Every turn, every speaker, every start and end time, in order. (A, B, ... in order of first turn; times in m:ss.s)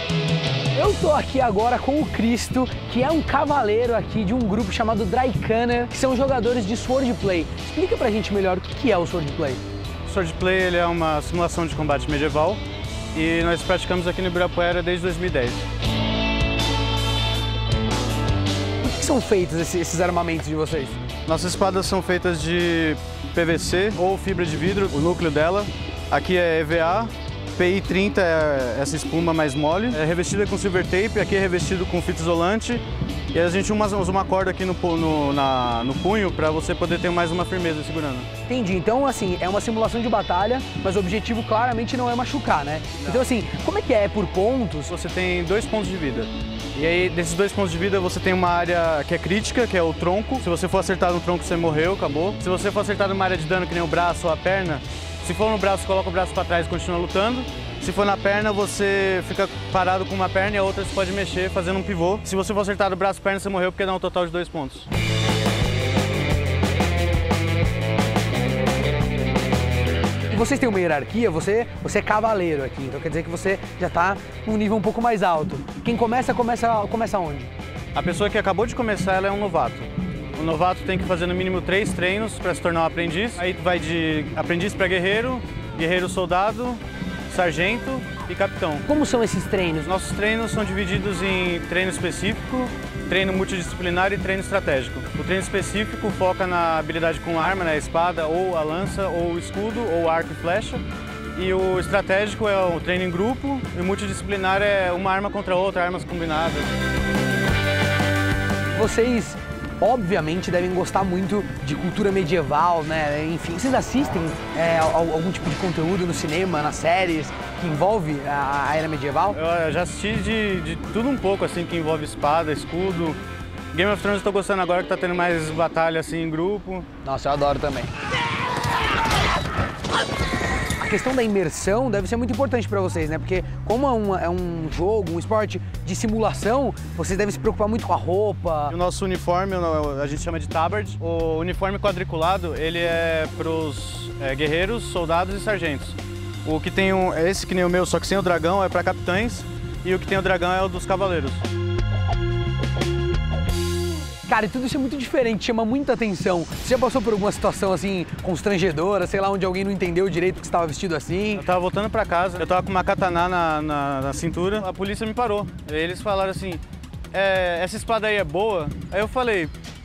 0:00.7-0:09.6 A
0:10.0-0:12.6 B
0:13.1-0:15.6 B
0:18.8-0:21.0 A
0:21.3-0:38.3 B
0:38.5-0:44.9 A
0:44.9-1:04.9 B
1:10.3-1:17.5 A
1:18.0-1:28.9 B
1:28.9-1:29.9 A
1:29.8-1:40.8 B
1:41.4-1:46.7 B
1:48.7-1:59.4 A
1:59.3-2:03.2 B
2:03.7-2:06.9 B
2:07.0-2:07.9 A
2:10.8-2:18.8 A
2:18.7-2:31.5 B
2:34.3-2:41.5 A
2:41.4-2:49.5 B